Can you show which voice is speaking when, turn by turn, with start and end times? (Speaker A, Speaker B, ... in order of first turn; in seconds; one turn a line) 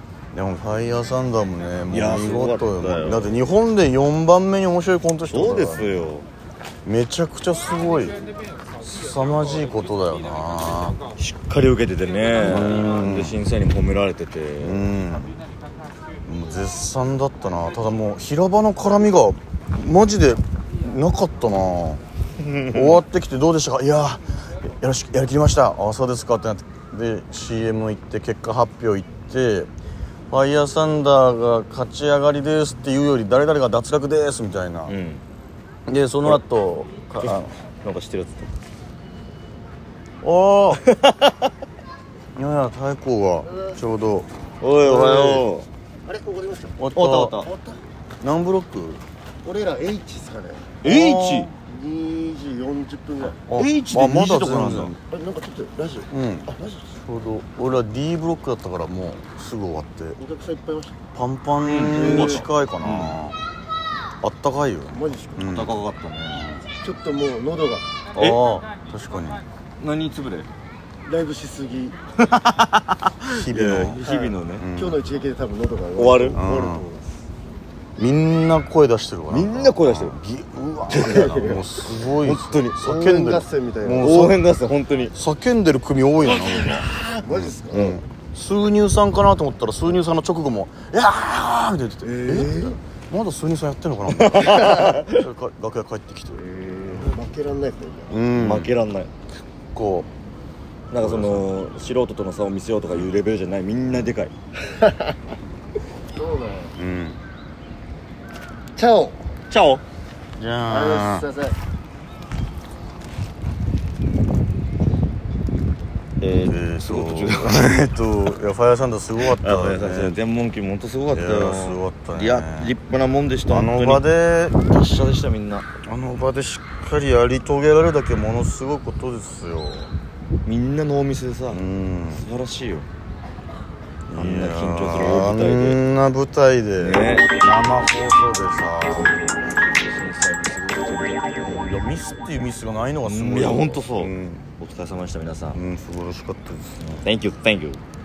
Speaker A: 0.3-5.9
Speaker B: 1.9-3.4
Speaker B: 5.3-6.2
Speaker A: 6.8-8.2
Speaker A: 8.8-11.0
Speaker B: 11.2-14.9
Speaker A: 12.4-13.4
Speaker A: 14.6-15.3
Speaker A: 16.2-22.0
Speaker B: 22.4-23.0
Speaker A: 22.7-29.7
Speaker A: 30.3-34.9
Speaker B: 34.9-35.2
Speaker A: 35.9-37.5
Speaker B: 37.2-38.5
Speaker A: 40.2-40.8
Speaker B: 40.7-41.5
Speaker A: 42.3-44.3
Speaker B: 44.6-45.7
Speaker A: 44.8-45.5
Speaker C: 46.0-46.8
Speaker A: 46.8-47.4
Speaker B: 46.9-47.5
Speaker C: 47.5-47.8
Speaker A: 48.2-49.0
Speaker C: 49.4-50.8
Speaker B: 50.8-51.5
Speaker A: 50.8-51.5
Speaker C: 51.5-53.5
Speaker A: 53.5-55.0
Speaker B: 53.5-55.0
Speaker C: 55.0-56.9
Speaker A: 56.1-60.2
Speaker C: 60.2-61.0
Speaker A: 61.1-63.4
Speaker B: 61.6-63.2
Speaker C: 61.9-62.4
Speaker A: 64.2-65.8
Speaker C: 64.9-65.5
Speaker B: 65.3-66.5
Speaker A: 66.3-66.7
Speaker C: 66.7-67.9
Speaker B: 68.1-68.4
Speaker A: 68.1-69.4
Speaker B: 69.8-70.5
Speaker C: 71.0-72.0
Speaker B: 72.2-74.7
Speaker A: 73.3-74.0
Speaker C: 74.0-77.1
Speaker A: 74.5-75.0
Speaker B: 75.9-76.4
Speaker A: 76.3-76.9
Speaker A: 78.0-84.4
Speaker B: 79.3-80.2
Speaker B: 80.9-81.3
Speaker C: 81.0-81.7
Speaker B: 82.0-82.9
Speaker C: 82.8-84.1
Speaker B: 84.0-85.1
Speaker A: 85.1-96.5
Speaker B: 86.4-87.0
Speaker C: 86.8-87.9
Speaker B: 87.7-88.0
Speaker C: 92.0-92.8
Speaker B: 94.1-95.2
Speaker C: 96.5-98.2
Speaker A: 98.1-98.7
Speaker B: 98.3-99.1
Speaker A: 99.7-100.1
Speaker B: 100.9-104.3
Speaker A: 101.0-101.5
Speaker C: 104.8-105.1
Speaker C: 106.1-106.7
Speaker A: 106.7-107.2
Speaker C: 108.8-109.2
Speaker B: 109.5-109.8
Speaker A: 110.4-111.3
Speaker C: 110.7-111.6
Speaker B: 116.2-117.7
Speaker A: 116.4-120.2
Speaker B: 119.2-124.0
Speaker A: 121.1-122.7
Speaker A: 123.5-124.6
Speaker B: 124.6-125.7
Speaker A: 125.8-129.9
Speaker B: 130.4-131.6
Speaker A: 131.5-132.3
Speaker B: 132.1-132.9
Speaker A: 134.1-139.2
Speaker B: 134.1-135.8
Speaker B: 136.8-137.3
Speaker B: 138.9-141.7
Speaker A: 141.4-144.4
Speaker B: 143.0-145.6
Speaker A: 145.5-147.0
Speaker B: 146.8-147.8